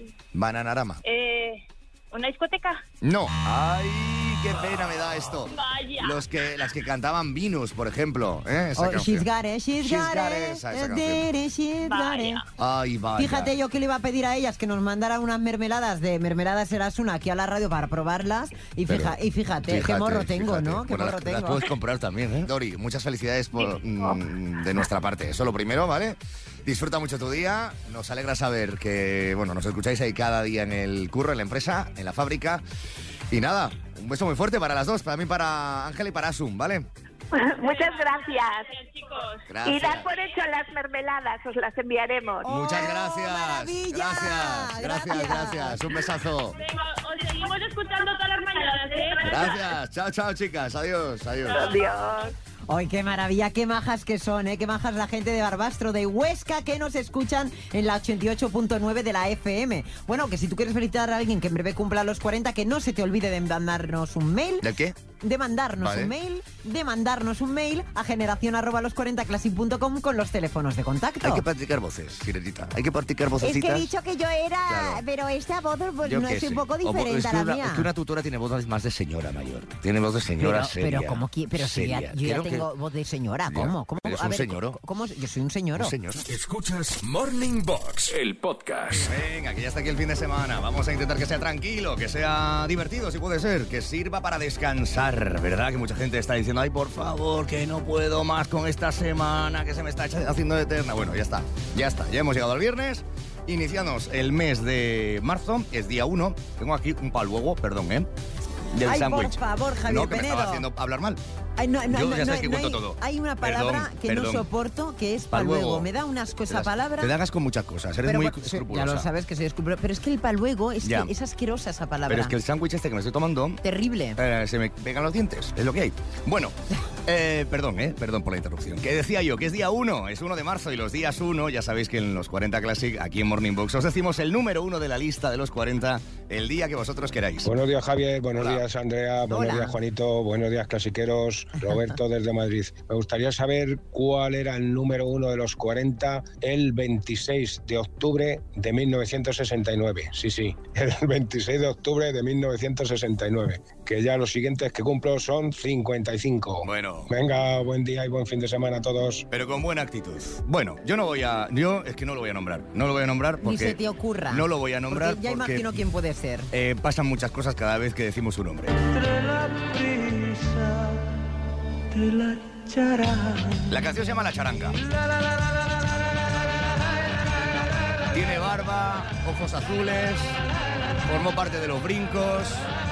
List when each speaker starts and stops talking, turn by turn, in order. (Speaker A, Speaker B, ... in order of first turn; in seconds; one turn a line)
Speaker A: 0.3-1.0
Speaker B: 1.0-2.8
Speaker A: 3.0-9.3
Speaker B: 5.5-6.2
Speaker C: 8.8-12.4
Speaker A: 9.8-11.3
Speaker B: 11.8-12.4
Speaker A: 12.6-13.5
Speaker C: 13.2-21.7
Speaker A: 18.9-32.6
Speaker A: 33.3-36.9
Speaker D: 37.3-38.7
Speaker B: 37.5-39.5
Speaker A: 39.5-40.1
Speaker D: 39.6-42.5
Speaker C: 42.4-45.8
Speaker A: 42.4-46.6
Speaker B: 46.5-49.6
Speaker A: 49.2-51.7
Speaker B: 51.5-51.9
Speaker D: 51.5-52.3
Speaker C: 52.7-64.7
Speaker A: 64.6-65.0
Speaker C: 65.2-71.4
Speaker A: 65.8-66.1
Speaker A: 71.2-73.9
Speaker C: 73.4-77.9
Speaker A: 74.7-75.0
Speaker A: 76.0-82.7
Speaker C: 80.4-85.9
Speaker A: 83.5-84.8
Speaker A: 85.8-86.2
Speaker E: 86.2-89.1
Speaker A: 89.0-108.1
Speaker A: 108.7-111.2
Speaker C: 108.8-110.7
Speaker C: 111.6-117.1
Speaker A: 111.9-114.5
Speaker A: 115.3-115.9
Speaker A: 116.5-119.1
Speaker C: 118.0-122.3
Speaker A: 120.8-121.1
Speaker A: 122.1-123.6
Speaker C: 123.6-124.2
Speaker A: 124.2-137.5
Speaker F: 137.4-159.2
Speaker A: 138.3-138.6
Speaker C: 139.3-139.8
Speaker A: 156.6-157.1
Speaker A: 159.3-165.8
Speaker C: 163.4-166.5
Speaker A: 166.5-168.9
Speaker A: 169.6-170.7
Speaker A: 173.6-174.8
Speaker A: 178.1-180.4
Speaker A: 181.0-182.7